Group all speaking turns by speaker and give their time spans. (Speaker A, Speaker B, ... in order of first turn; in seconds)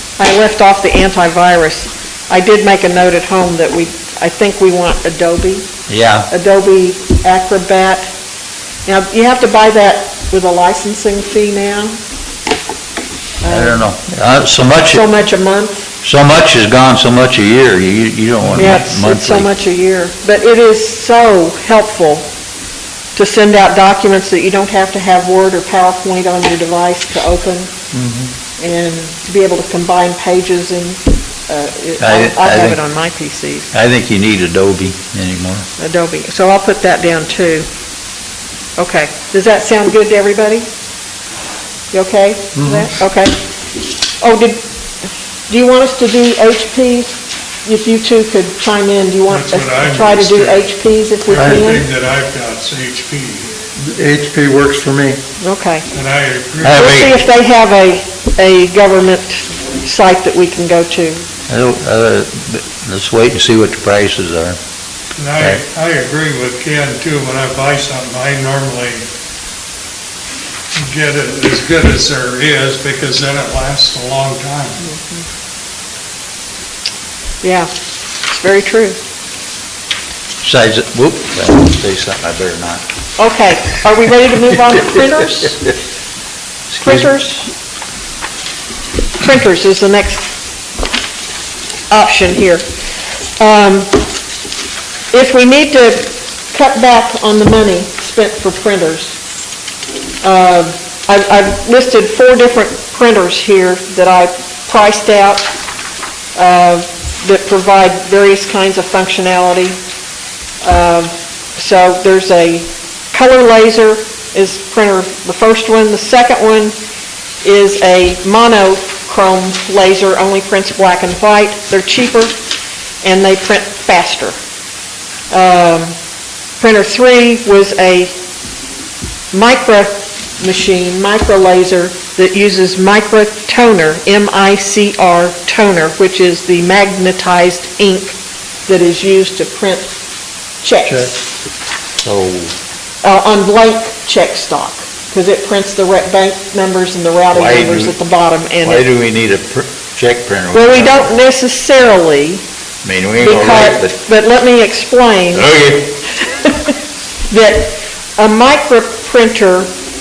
Speaker A: 0.2-5.7, 6.3-8.1, 8.8-12.0, 13.4-13.9, 14.8-15.9, 18.6-22.3, 23.1-27.7, 28.6-33.7, 35.8-37.7, 38.8-40.7, 41.9-43.4, 44.2-51.9, 55.4-55.9, 56.7-61.2, 74.8-75.2, 77.4-77.7, 78.3-79.0, 83.2-85.6, 86.8-87.5, 89.2-90.3, 91.9-92.7, 93.4-94.0, 95.1-99.2, 100.2-105.5, 106.4-109.8, 110.6-116.8, 117.4-122.3, 123.0-124.4, 125.3-126.0, 126.6-128.2, 129.3-139.9, 140.6-141.1, 143.0-148.9, 150.5-152.4, 153.2-155.5, 156.2-156.8, 157.3-159.7
Speaker B: 5.9-6.3, 13.5-15.1, 16.0-19.5, 27.9-28.3, 32.0-32.8, 33.7-35.7, 56.6-57.2, 61.5-64.6, 80.4-82.8, 84.9-85.5, 86.7-87.1, 142.0-142.6, 147.3-148.0, 148.6-151.1, 152.8-154.0, 155.3-156.0
Speaker C: 42.6-42.9, 51.3-51.7, 53.8-55.2
Speaker D: 49.3-50.7, 51.3-53.6, 55.9-56.8, 65.2-69.1, 70.8-74.8